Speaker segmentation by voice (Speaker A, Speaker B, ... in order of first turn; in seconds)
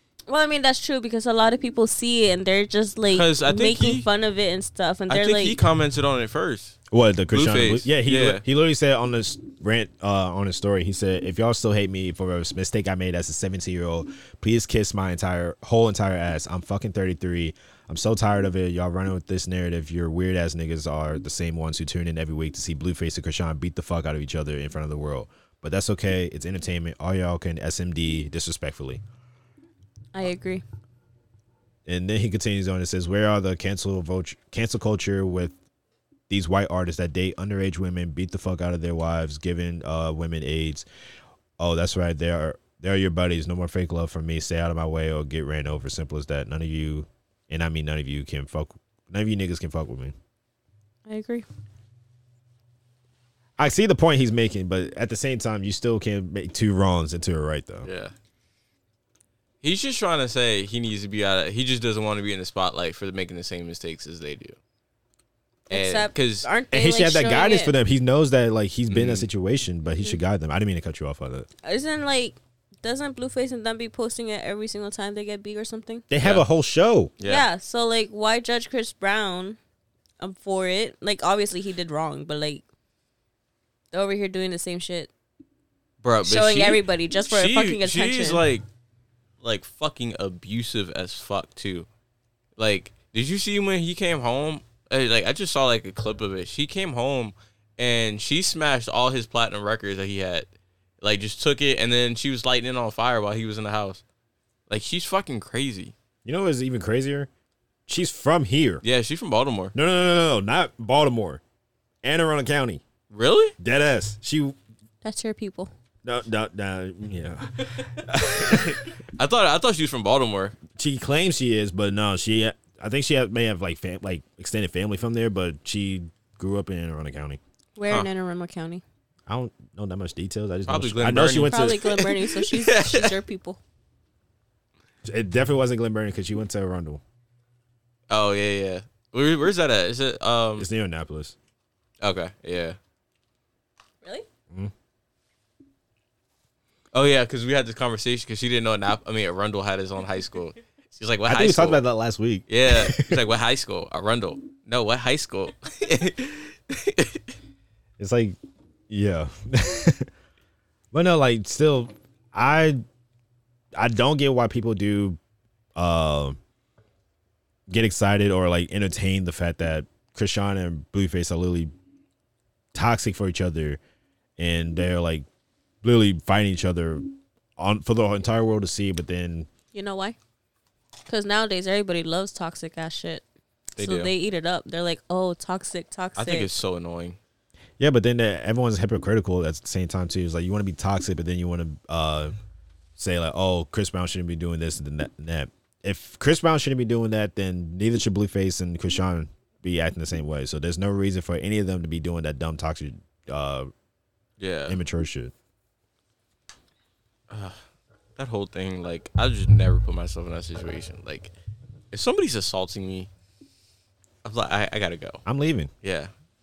Speaker A: 0.3-5.6, 30.1-30.6, 51.1-51.5, 65.7-67.7, 71.6-76.0, 77.2-79.6, 80.2-82.6, 83.9-85.1, 86.2-88.4, 115.0-115.7, 127.8-128.8, 131.5-133.6, 179.7-180.2, 181.1-183.2, 183.8-186.5
Speaker B: 3.1-4.1, 5.1-6.8, 7.3-8.4, 57.9-58.1, 59.6-64.6, 65.7-66.5, 68.9-69.2, 76.2-76.5, 77.2-77.5, 86.0-88.7, 89.4-91.9, 92.6-100.5, 101.0-104.0, 104.7-105.9, 108.8-109.7, 113.1-113.5, 118.4-120.6, 130.7-133.1, 138.1-140.7, 142.0-142.8, 146.9-151.8, 152.5-157.3, 183.8-184.1, 186.2-187.2, 204.4-204.8, 207.3-207.6, 208.2-211.3, 211.9-213.1, 214.2-215.2, 215.8-216.1
Speaker C: 6.9-29.0, 31.9-35.5, 36.3-40.9, 41.6-50.1, 53.6-57.9, 66.7-71.5, 76.1-77.1, 106.2-107.3, 107.9-108.8, 109.7-111.4, 112.0-112.8, 113.6-114.6, 116.0-118.8, 120.7-127.4, 129.3-131.8, 135.1-137.0, 140.6-141.3, 151.2-153.2, 158.0-158.4, 158.9-160.1, 160.9-162.8, 163.8-165.2, 165.8-166.4, 167.7-171.7, 172.7-173.8, 174.4-175.2, 175.8-177.1, 177.6-179.5, 187.8-192.3, 193.0-203.7, 204.7-205.3, 215.2-215.7